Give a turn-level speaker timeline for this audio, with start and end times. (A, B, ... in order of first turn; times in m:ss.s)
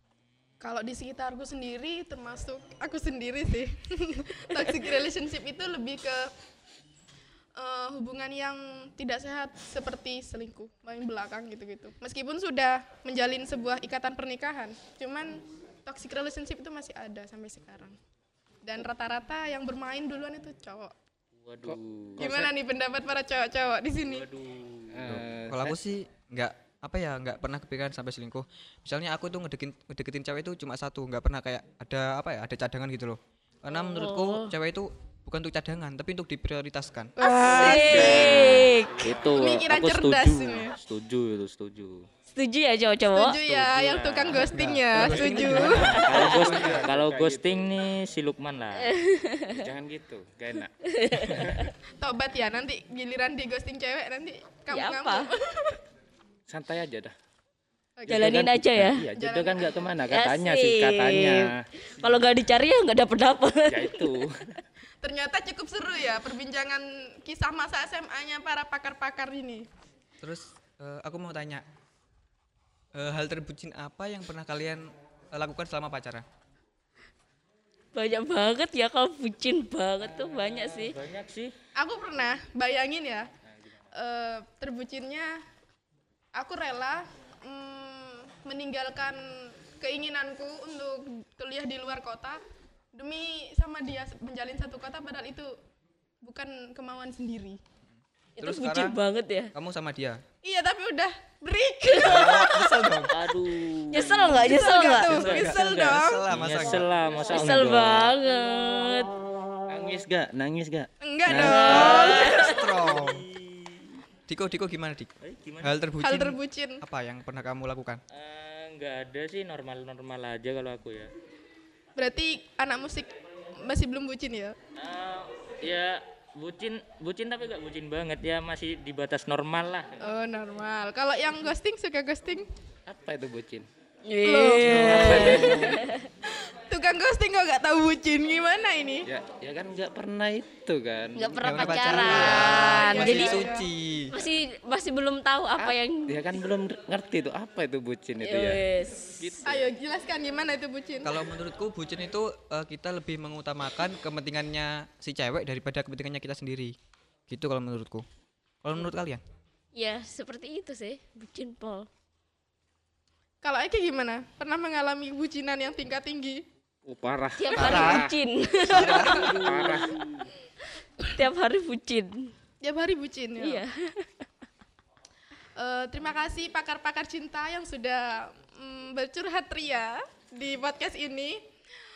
0:00.6-0:06.3 A
0:07.6-0:18.0 A
0:18.6-0:20.9 A
0:21.4-0:22.5 B
0:21.6-0:22.5 C
0:22.2-0:24.3 A
0:24.0-0:25.2 B
0:24.9-0:25.8 C
0:25.0-0:37.1 D
0:33.7-0:34.5 E
0:37.2-0:38.4 A
0:37.2-0:39.1 E
0:37.5-0:39.4 C
0:37.6-0:42.1 B
0:39.2-0:40.7 A
0:42.3-0:43.4 E
0:43.1-0:46.0 A
0:43.4-0:48.9 B
0:44.3-0:46.9 D
0:45.8-0:46.5 E
0:46.0-0:47.7 C
0:48.8-0:49.6 E
0:49.5-0:51.6 C
0:50.8-0:51.7 E
0:52.0-0:55.8 A
0:54.7-0:55.3 E
0:56.5-0:57.1 C
0:58.0-0:58.4 A
0:58.1-1:02.3 C
0:58.1-0:59.1 E
0:59.1-1:00.0 A
1:00.1-1:04.2 E
1:03.7-1:04.3 C
1:05.0-1:09.7 A
1:10.2-1:11.6 D
1:12.9-1:16.2 D
1:17.9-1:21.0 E
1:20.2-1:21.5 B
1:21.8-1:23.3 A
1:23.9-1:25.4 A
1:26.3-1:32.4 A
1:32.9-1:35.5 A
1:36.2-1:37.6 A
1:38.4-1:39.5 E
1:38.4-1:39.0 D
1:39.5-1:40.2 D
1:40.4-1:42.8 A
1:42.0-1:43.2 D
1:42.0-1:42.5 E
1:43.1-1:48.2 B
1:43.9-1:45.2 E
1:44.0-1:46.2 A
1:45.1-1:46.9 D
1:47.0-1:47.6 C
1:47.3-1:49.1 E
1:49.7-1:52.1 C
1:51.0-1:52.6 A
1:51.3-1:54.0 B
1:51.5-1:53.3 D
1:51.9-1:52.4 E
1:54.3-1:58.0 D
1:55.2-1:55.7 B
1:56.0-1:56.8 A
1:58.1-2:01.1 B
2:02.0-2:03.1 A
2:03.6-2:04.6 A
2:04.8-2:10.0 B
2:10.0-2:12.5 A
2:12.9-2:13.7 C
2:14.1-2:16.0 E
2:14.2-2:15.7 A
2:14.7-2:15.8 C
2:16.2-2:19.1 A
2:19.1-2:22.4 C
2:21.2-2:23.4 E
2:21.4-2:24.1 D
2:22.0-2:23.7 A
2:24.1-2:26.2 E
2:25.6-2:28.6 C
2:28.2-2:29.3 E
2:29.2-2:29.7 C
2:29.4-2:31.2 A
2:31.0-2:36.8 D
2:37.3-2:38.0 D
2:38.6-2:39.2 D
2:39.7-2:41.9 E
2:43.4-2:46.4 A
2:46.8-2:48.2 C
2:47.4-2:49.9 E
2:47.6-2:48.0 A
2:47.6-2:48.1 D
2:48.7-2:49.3 D
2:48.7-2:49.5 A
2:48.8-2:49.9 C
2:49.2-2:49.9 B
2:51.0-2:52.3 E
2:52.6-2:53.6 A
2:53.4-2:54.1 E
2:55.6-3:01.4 A